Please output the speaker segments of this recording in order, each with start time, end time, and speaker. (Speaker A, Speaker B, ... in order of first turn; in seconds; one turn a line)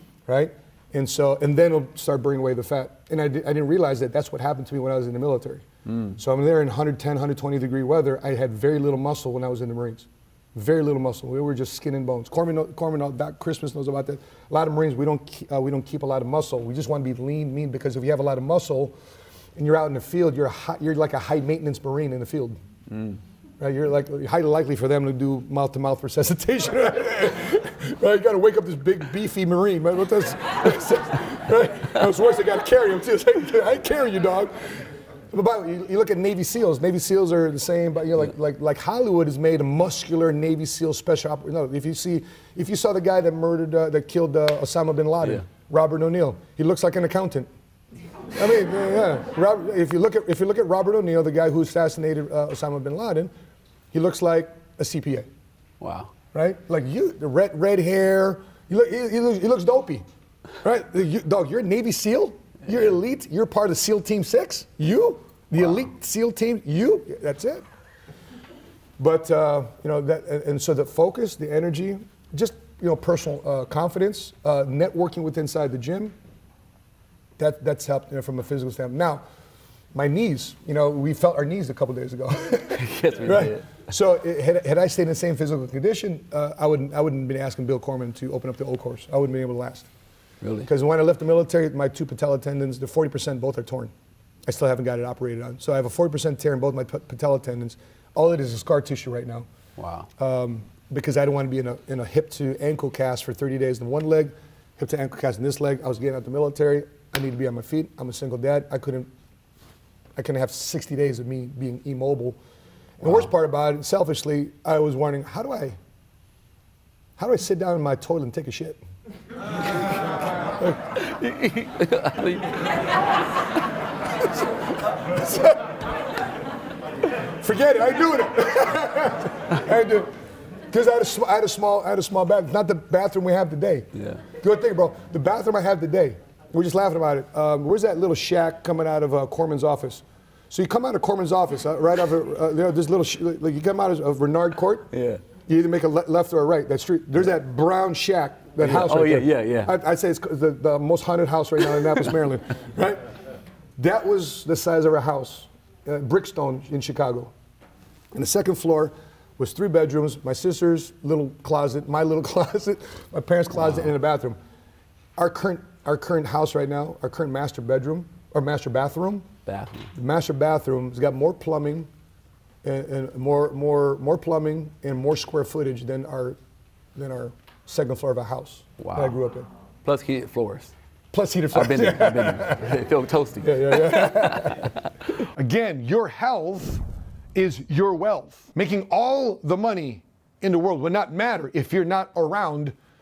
Speaker A: 0.3-19.0
Speaker B: 5.9-6.2
Speaker A: 19.6-22.6
Speaker B: 22.9-23.2
Speaker A: 23.6-34.5
Speaker A: 35.3-47.5
Speaker A: 48.3-53.3
Speaker A: 53.9-55.3
Speaker B: 55.8-56.1
Speaker A: 56.3-60.0
Speaker A: 60.6-67.6
Speaker A: 69.0-76.1
Speaker A: 77.4-79.2
Speaker A: 79.9-89.9
Speaker B: 82.7-83.7
Speaker B: 90.4-90.7
Speaker A: 90.7-93.9
Speaker A: 94.5-99.5
Speaker B: 99.8-100.1
Speaker A: 100.2-109.1
Speaker A: 110.2-112.4
Speaker A: 113.0-115.8
Speaker A: 117.2-118.8
Speaker B: 120.9-123.0
Speaker A: 125.1-125.7
Speaker A: 127.4-130.1
Speaker A: 130.7-144.9
Speaker B: 133.9-134.2
Speaker B: 144.9-145.2
Speaker A: 145.5-153.0
Speaker B: 148.6-149.8
Speaker A: 153.8-157.3
Speaker A: 158.1-164.4
Speaker A: 165.2-169.3
Speaker B: 169.5-169.9
Speaker A: 169.9-171.9
Speaker A: 172.6-176.4
Speaker A: 176.9-179.5
Speaker B: 178.8-179.2
Speaker B: 179.8-180.7
Speaker A: 181.1-182.8
Speaker B: 181.5-184.9
Speaker A: 183.4-186.8
Speaker A: 187.3-192.8